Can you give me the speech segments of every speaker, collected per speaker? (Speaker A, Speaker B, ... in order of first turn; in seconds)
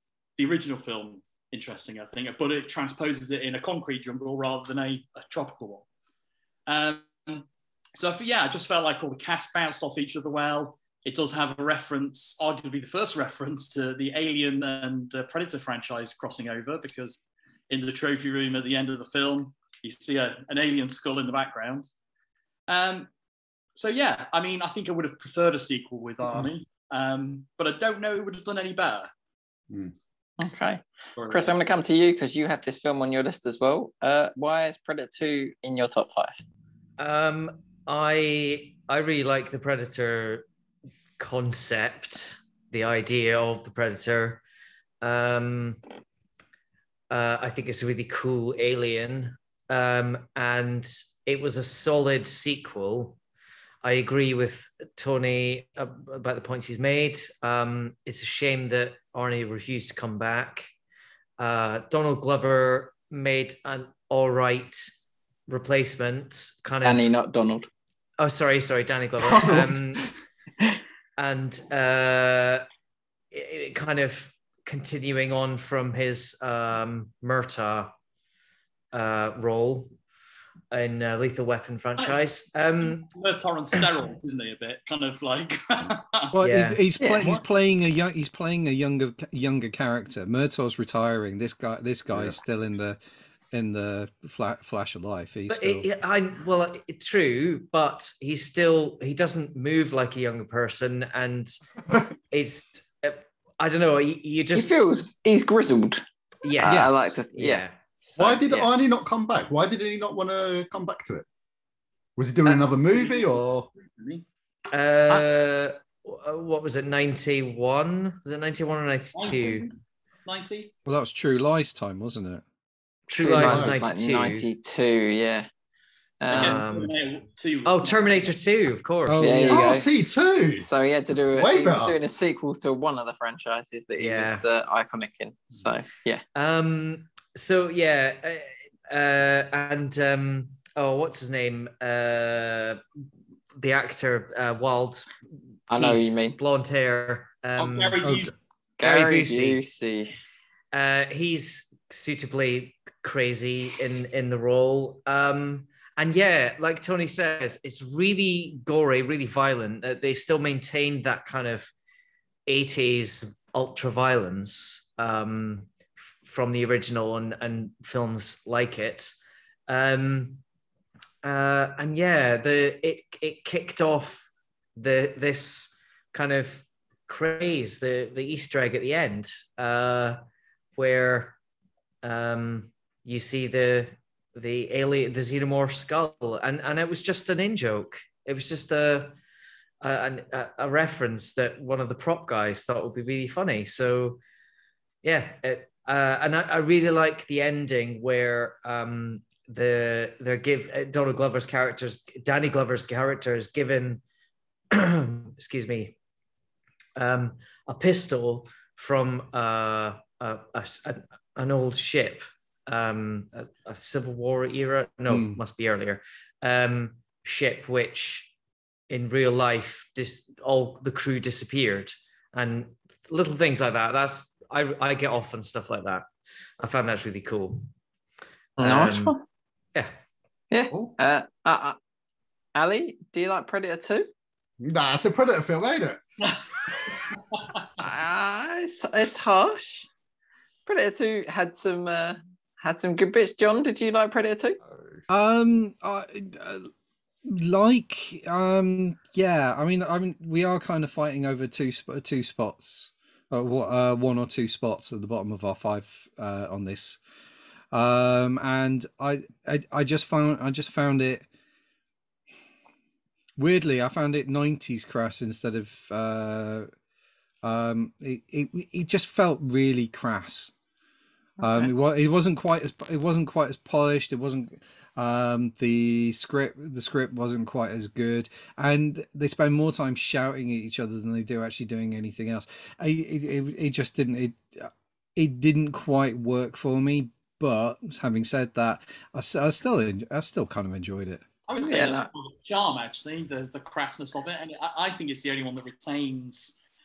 Speaker A: 0.4-5.9, 6.7-21.9, 22.7-23.1, 23.8-29.1, 31.2-31.5, 82.8-86.3, 112.4-114.2, 119.1-119.7, 120.2-120.7, 126.3-128.1, 147.6-148.3, 237.1-237.7, 291.5-296.6
Speaker B: 30.4-36.4, 66.8-67.7, 87.0-87.3, 104.5-106.0, 106.6-107.6, 123.1-125.5, 126.2-126.6, 129.2-129.8, 130.6-136.2, 145.7-146.4, 148.8-150.1, 228.6-229.2, 230.5-231.8, 232.6-234.1, 237.8-239.9, 240.7-244.6, 271.4-271.7, 291.6-292.1
Speaker C: 37.0-40.5, 41.2-44.4, 45.0-45.8, 47.1-53.2, 53.8-60.7, 61.4-64.9, 65.5-67.2, 68.2-70.1, 71.2-72.6, 73.3-77.9, 78.9-79.9, 80.7-83.1, 86.4-86.8, 95.5-101.5, 102.3-104.9, 106.4-108.7, 114.7-119.7, 123.1-124.5, 126.3-126.9, 127.7-129.5, 133.9-134.4, 136.3-142.8, 143.6-145.1, 145.7-148.1, 148.8-149.6, 150.7-161.7, 162.5-165.7, 166.2-169.1, 169.7-170.4, 171.2-180.2, 180.8-181.3, 182.0-189.1, 189.8-194.2, 195.0-204.0, 204.7-205.9, 207.0-218.3, 218.9-226.1, 226.6-227.6, 228.6-229.1
Speaker D: 69.2-70.1, 92.1-92.4, 108.2-111.2, 112.2-113.7, 123.3-123.8, 129.5-130.7, 131.3-131.9, 234.6-236.0, 244.6-245.0
Speaker E: 86.3-93.0, 93.5-95.8, 106.7-107.1, 120.9-122.4, 129.1-129.8, 148.0-148.3, 215.1-215.4, 245.1-246.7, 247.2-257.0, 257.7-261.3, 263.4-266.7, 267.4-270.5, 271.4-291.2